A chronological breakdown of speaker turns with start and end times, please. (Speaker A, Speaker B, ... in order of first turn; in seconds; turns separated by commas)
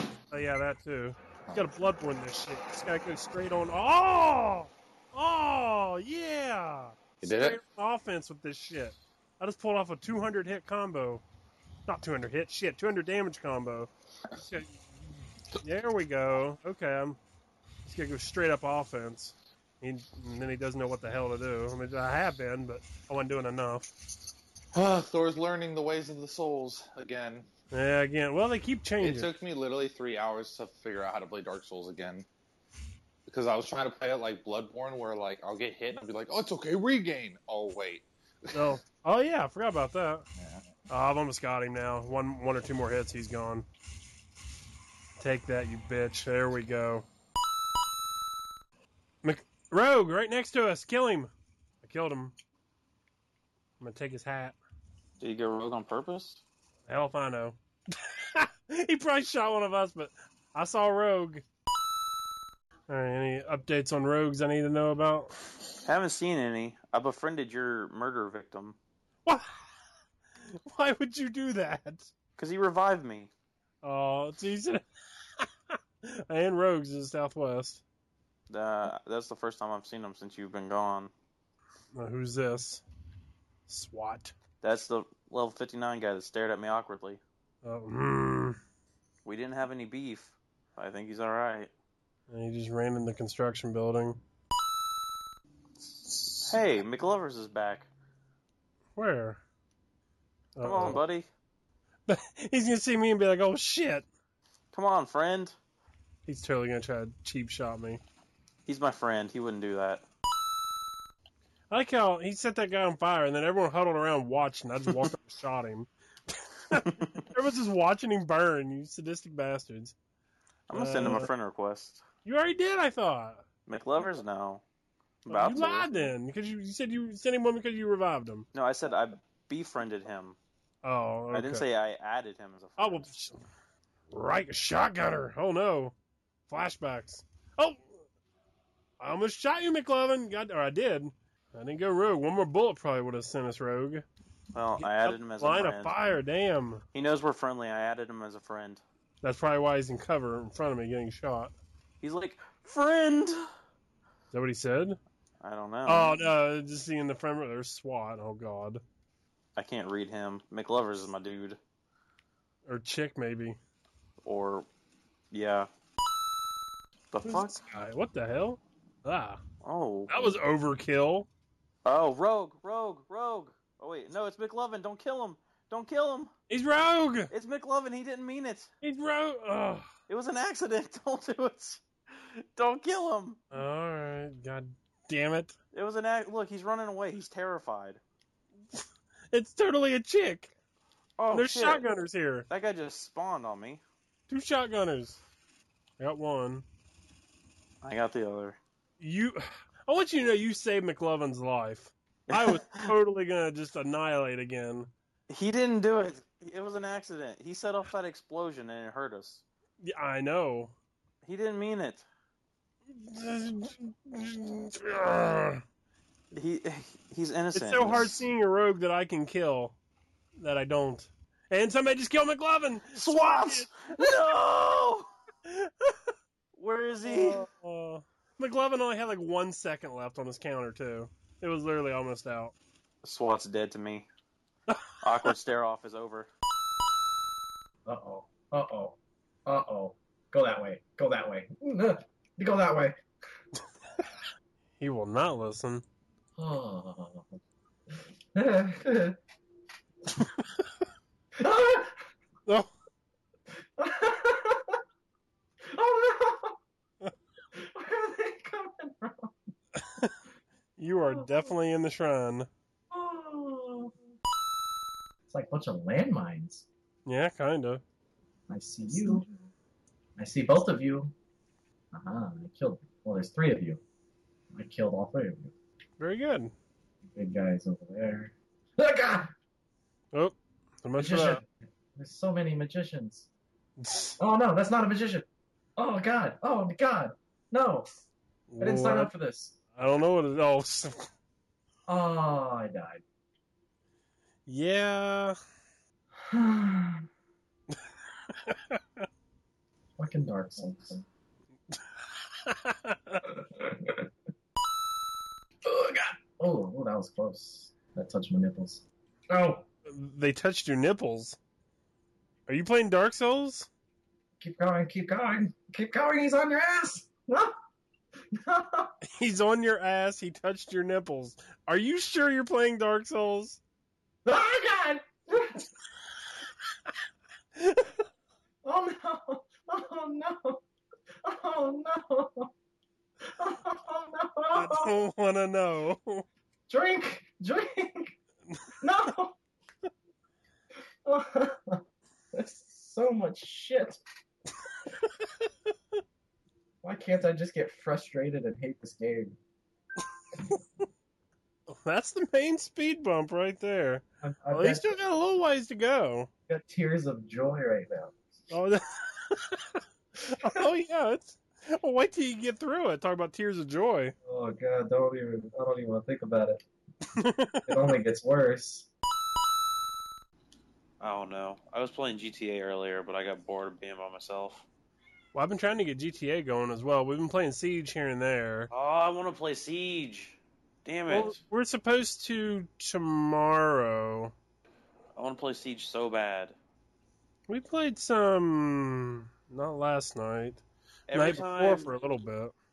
Speaker A: 0.3-11.2, Speaker B: 7.2-7.6, Speaker A: 11.9-13.9, Speaker A: 14.4-14.7, Speaker A: 15.6-17.2, Speaker A: 17.9-23.9, Speaker B: 24.7-27.5, Speaker A: 27.7-29.3, Speaker B: 29.0-32.3, Speaker B: 33.3-38.8, Speaker A: 38.5-40.3, Speaker B: 40.4-40.7, Speaker A: 40.9-43.7, Speaker A: 45.2-47.0, Speaker A: 49.2-51.3, Speaker A: 51.8-52.3, Speaker A: 53.8-54.6, Speaker C: 55.2-56.4, Speaker A: 56.9-61.5, Speaker A: 62.9-65.3, Speaker C: 65.8-68.8, Speaker A: 69.3-69.6, Speaker A: 70.7-72.1, Speaker C: 72.4-73.3, Speaker A: 73.8-74.8, Speaker A: 75.4-77.8, Speaker C: 78.5-81.1, Speaker A: 82.0-82.8, Speaker A: 83.7-84.3, Speaker C: 84.6-87.2, Speaker A: 87.6-88.6, Speaker C: 89.2-91.7, Speaker A: 92.3-94.2, Speaker C: 96.3-97.9, Speaker A: 99.0-99.4, Speaker A: 100.6-101.0, Speaker C: 100.6-101.3, Speaker A: 102.1-104.1, Speaker C: 104.7-105.5, Speaker A: 106.3-108.0, Speaker C: 108.7-110.0, Speaker A: 111.7-115.9, Speaker A: 116.7-120.0, Speaker C: 116.8-117.2, Speaker C: 120.7-122.0, Speaker A: 120.7-121.3, Speaker A: 122.2-123.4, Speaker C: 123.7-124.6, Speaker C: 125.3-126.1, Speaker A: 125.3-128.5, Speaker C: 128.5-130.4, Speaker A: 130.8-131.6, Speaker C: 131.3-133.2, Speaker A: 132.8-133.4, Speaker A: 134.1-135.9, Speaker A: 136.5-137.9, Speaker A: 139.0-144.1, Speaker C: 144.5-145.9, Speaker A: 144.8-146.8, Speaker C: 146.9-148.8, Speaker A: 149.2-151.5, Speaker C: 152.0-153.4, Speaker A: 154.3-155.0, Speaker C: 155.4-156.1, Speaker A: 155.9-158.8, Speaker C: 159.6-161.6, Speaker A: 162.7-163.6, Speaker C: 164.2-164.7, Speaker C: 165.3-165.7, Speaker C: 167.1-167.6, Speaker A: 167.2-169.4, Speaker C: 169.6-170.3, Speaker A: 170.1-171.3, Speaker C: 171.8-176.3, Speaker A: 176.5-177.3, Speaker C: 177.3-178.7, Speaker A: 178.8-179.9, Speaker C: 180.1-181.8, Speaker C: 182.6-183.4, Speaker A: 183.5-185.6, Speaker C: 185.7-188.0, Speaker A: 188.8-190.5, Speaker C: 191.2-191.9, Speaker A: 191.3-192.5, Speaker C: 192.5-193.8, Speaker A: 194.3-195.2, Speaker A: 196.0-196.7, Speaker C: 197.8-198.6, Speaker A: 199.0-204.9, Speaker C: 202.3-202.9, Speaker C: 205.3-209.4, Speaker A: 209.8-210.7, Speaker C: 211.2-212.1, Speaker A: 213.0-215.6, Speaker C: 216.3-218.2, Speaker A: 217.5-219.8, Speaker A: 220.4-224.2, Speaker C: 222.9-225.1, Speaker A: 225.5-226.1, Speaker C: 226.6-227.5, Speaker A: 227.0-232.5, Speaker C: 233.0-234.1, Speaker C: 235.0-236.3, Speaker D: 237.9-243.0, Speaker A: 244.8-245.8, Speaker D: 246.4-247.3, Speaker D: 248.3-249.2, Speaker D: 251.4-252.0, Speaker A: 252.5-252.7, Speaker D: 253.8-254.8, Speaker D: 255.6-256.6, Speaker D: 257.6-259.4, Speaker A: 260.8-262.5, Speaker D: 261.0-261.5, Speaker D: 262.9-263.9, Speaker D: 265.3-266.7, Speaker A: 267.1-267.8, Speaker D: 268.5-269.2, Speaker D: 270.2-271.1, Speaker D: 271.9-273.8, Speaker D: 274.5-275.5, Speaker A: 276.0-276.5, Speaker D: 277.1-279.3, Speaker A: 280.1-281.4, Speaker D: 281.0-283.3, Speaker A: 283.8-284.2, Speaker D: 284.2-285.3, Speaker D: 285.8-288.0, Speaker A: 288.5-289.1, Speaker D: 288.6-289.6, Speaker A: 289.8-291.1, Speaker D: 291.9-293.0, Speaker A: 294.5-295.4, Speaker D: 296.2-297.1, Speaker A: 298.3-298.8, Speaker D: 300.0-301.1, Speaker A: 302.4-303.2, Speaker D: 303.2-304.1, Speaker D: 305.6-309.6, Speaker A: 309.9-311.4, Speaker A: 312.5-313.7, Speaker D: 314.4-317.6, Speaker D: 318.3-318.9, Speaker A: 319.2-323.6, Speaker D: 324.2-325.6, Speaker A: 327.6-327.9, Speaker D: 328.6-330.6, Speaker D: 331.2-332.5, Speaker D: 333.2-335.0, Speaker A: 334.5-336.2, Speaker D: 336.7-338.1, Speaker D: 338.8-339.4, Speaker D: 341.1-344.0, Speaker D: 346.8-349.4, Speaker A: 351.7-356.3, Speaker D: 354.2-355.0, Speaker D: 356.5-358.2, Speaker A: 358.5-364.1, Speaker D: 364.2-366.6, Speaker A: 367.2-367.7, Speaker D: 367.7-368.9, Speaker C: 371.0-374.6, Speaker A: 375.3-378.7, Speaker C: 378.7-381.4, Speaker A: 381.1-384.3, Speaker C: 385.1-386.6, Speaker A: 387.5-392.6, Speaker C: 391.1-392.0